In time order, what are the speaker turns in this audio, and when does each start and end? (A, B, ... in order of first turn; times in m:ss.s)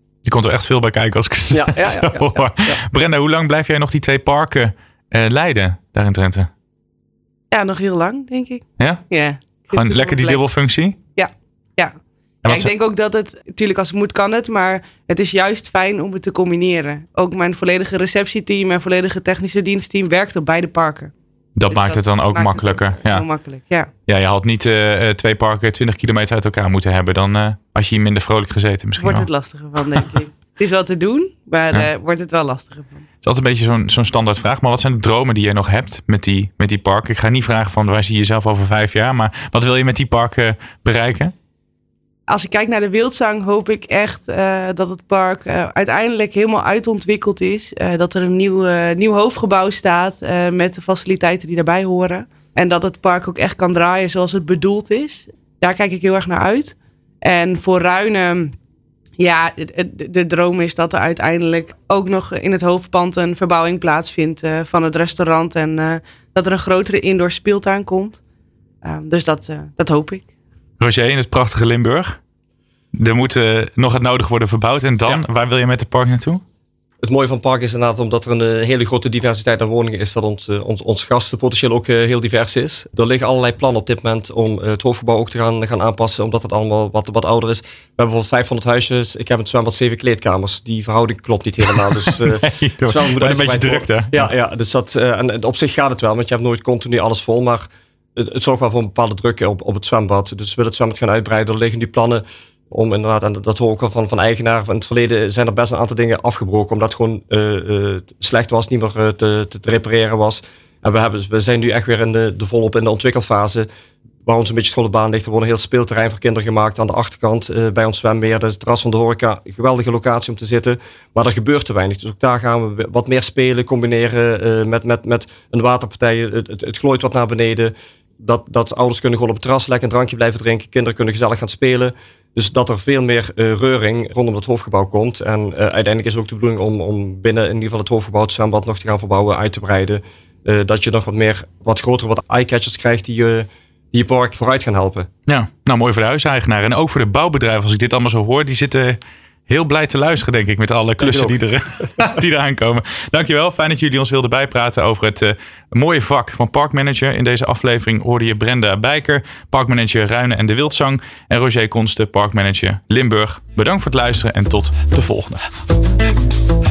0:00.2-0:06.5 A
0:01.5-0:02.8 B
0:07.5-0:10.4 C
0:08.8-0:09.0 A
0:09.7-0:11.0 A
0:11.2-0:11.9 C
0:12.4-0:12.7 A
0:12.5-0:21.1 C
0:21.6-0:23.2 A
0:21.7-0:23.9 C
0:24.1-0:29.3 A
0:29.0-0:33.0 C
0:33.2-0:41.3 A
0:42.3-0:58.5 C
0:59.2-1:08.2 C
1:08.8-1:10.3 C
1:10.8-1:12.2 A
1:13.0-1:16.4 A
1:17.0-1:53.7 B
1:31.7-1:34.2 A
1:54.2-2:25.1 B
2:25.3-2:45.4 A
2:31.0-2:31.4 B